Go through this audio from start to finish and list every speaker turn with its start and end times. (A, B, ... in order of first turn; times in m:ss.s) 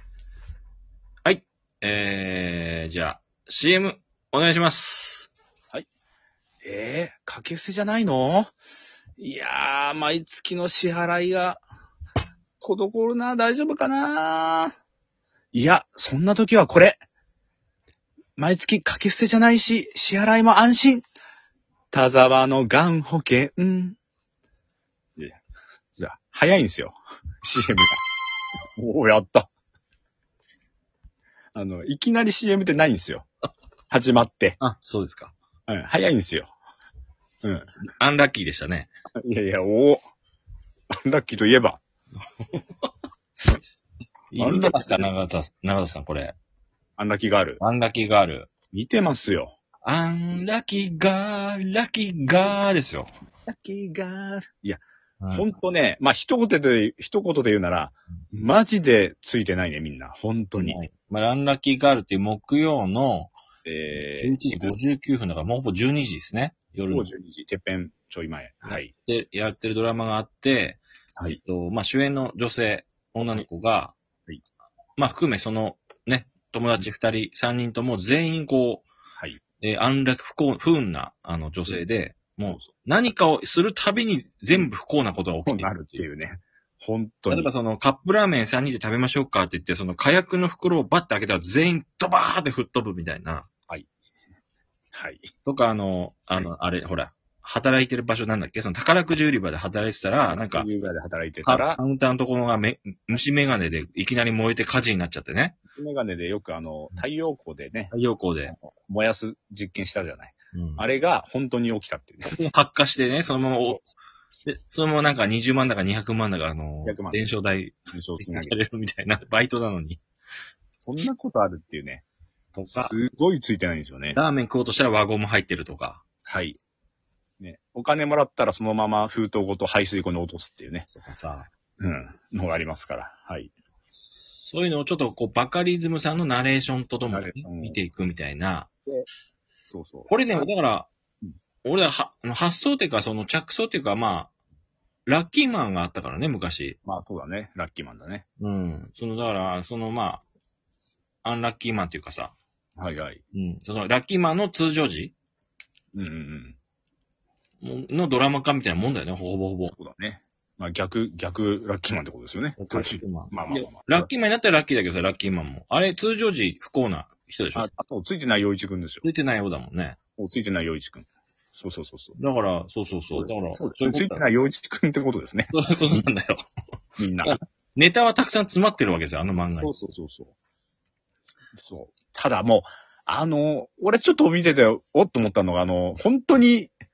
0:01.2-0:05.3 A
0:06.6-0:08.5 B
0:09.2-0:11.6 B
0:12.6-0:14.7 B
0:15.5-0:17.0 B
0:18.4-0:21.0 B
0:21.9-0:24.0 B
0:26.0-0:28.0 B
0:28.8-0:29.5 B
0:31.6-0:33.3 B
0:33.9-0:34.6 B
0:34.6-0:35.3 A
0:35.7-0:36.5 B
0:38.0-0:38.9 A
0:39.2-0:40.0 B
0:41.0-0:41.8 B
0:44.3-0:46.4 A
0:44.4-0:45.1 B
0:47.0-0:47.6 B
0:47.6-0:48.5 A
0:48.7-0:49.5 B
0:49.8-0:53.1 A
0:53.5-1:00.8 B
0:55.2-0:55.5 A
1:00.6-1:03.3 A
1:03.6-1:04.7 B
1:03.9-1:07.1 A
1:06.9-1:08.9 B
1:08.6-1:14.0 A
1:15.0-1:18.9 A
1:19.6-1:26.0 A
1:22.4-1:22.7 B
1:25.5-1:27.5 B
1:27.3-1:33.5 A
1:34.9-1:35.3 B
1:35.4-1:40.7 A
1:40.3-1:41.8 B
1:41.4-1:45.6 A
1:45.8-1:47.9 B
1:47.9-1:48.6 A
1:48.5-1:52.3 B
1:50.5-1:50.8 A
1:52.3-1:53.9 A
1:54.5-2:00.0 A
1:56.8-1:57.3 B
1:57.9-1:58.6 B
2:00.8-2:02.0 B
2:02.6-2:03.0 A
2:02.7-2:04.2 B
2:04.1-2:06.0 A
2:06.3-2:06.6 B
2:07.4-2:10.9 B
2:10.9-2:11.5 A
2:11.8-2:13.5 B
2:14.4-2:18.7 A
2:17.1-2:17.8 B
2:19.6-2:20.5 B
2:20.1-2:20.9 A
2:21.6-2:24.3 A
2:25.1-2:26.8 A
2:26.8-2:28.3 B
2:28.4-2:30.2 A
2:31.2-2:32.4 A
2:32.8-2:33.2 B
2:33.3-2:35.2 A
2:35.9-2:36.6 B
2:37.6-2:39.8 A
2:39.7-2:44.1 B
2:42.6-2:47.7 A
2:47.6-2:49.1 B
2:49.0-2:50.0 A
2:50.2-2:52.2 B
2:52.2-2:54.2 A
2:53.1-2:56.0 B
2:55.5-2:56.4 A
2:57.0-2:57.4 B
2:57.2-2:59.7 A
2:59.6-3:00.3 B
3:01.6-3:06.7 B